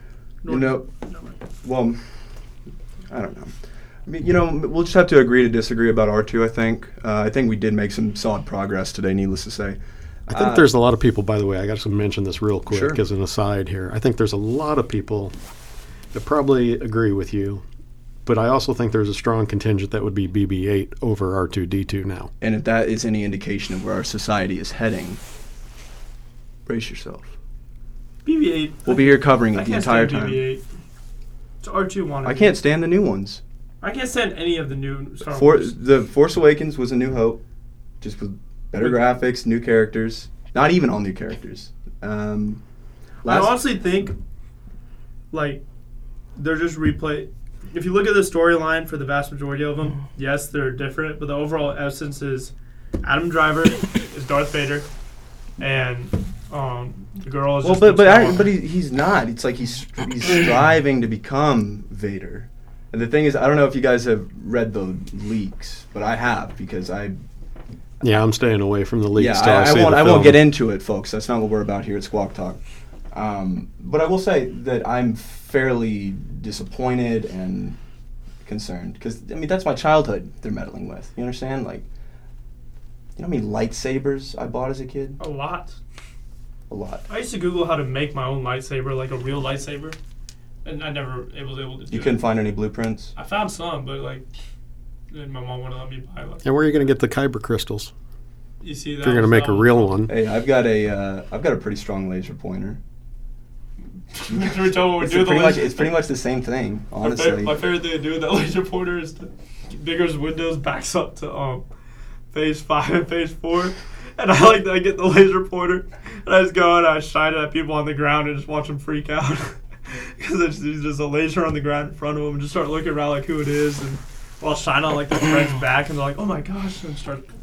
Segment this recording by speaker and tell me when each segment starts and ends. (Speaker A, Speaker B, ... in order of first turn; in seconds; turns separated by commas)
Speaker A: 0.4-1.4, Speaker B: 0.5-0.8, Speaker B: 1.6-2.0, Speaker B: 3.1-10.7, Speaker C: 10.3-15.3, Speaker B: 12.7-13.0, Speaker C: 16.1-17.6, Speaker C: 18.2-22.3, Speaker B: 22.4-25.2, Speaker B: 26.6-27.3, Speaker A: 28.2-30.6, Speaker B: 28.8-30.4, Speaker A: 31.6-32.5, Speaker B: 32.2-33.4, Speaker A: 33.8-35.7, Speaker B: 35.2-37.4, Speaker B: 38.0-42.6, Speaker B: 43.2-43.6, Speaker A: 43.2-44.1, Speaker A: 45.3-45.6, Speaker A: 46.4-54.9, Speaker A: 55.6-58.5, Speaker B: 57.6-67.2, Speaker C: 68.0-70.4, Speaker B: 69.2-72.6, Speaker B: 73.1-77.8, Speaker B: 78.4-81.8, Speaker B: 83.2-85.2, Speaker A: 85.2-85.7, Speaker B: 86.7-87.0, Speaker A: 87.1-90.0, Speaker A: 90.6-92.2, Speaker B: 91.9-93.1, Speaker A: 93.2-94.2, Speaker A: 95.1-96.4, Speaker C: 96.4-97.9, Speaker A: 98.6-100.0, Speaker C: 99.0-100.1, Speaker B: 100.1-102.8, Speaker A: 104.1-105.9, Speaker B: 104.3-107.5, Speaker A: 107.0-111.6, Speaker A: 112.3-127.3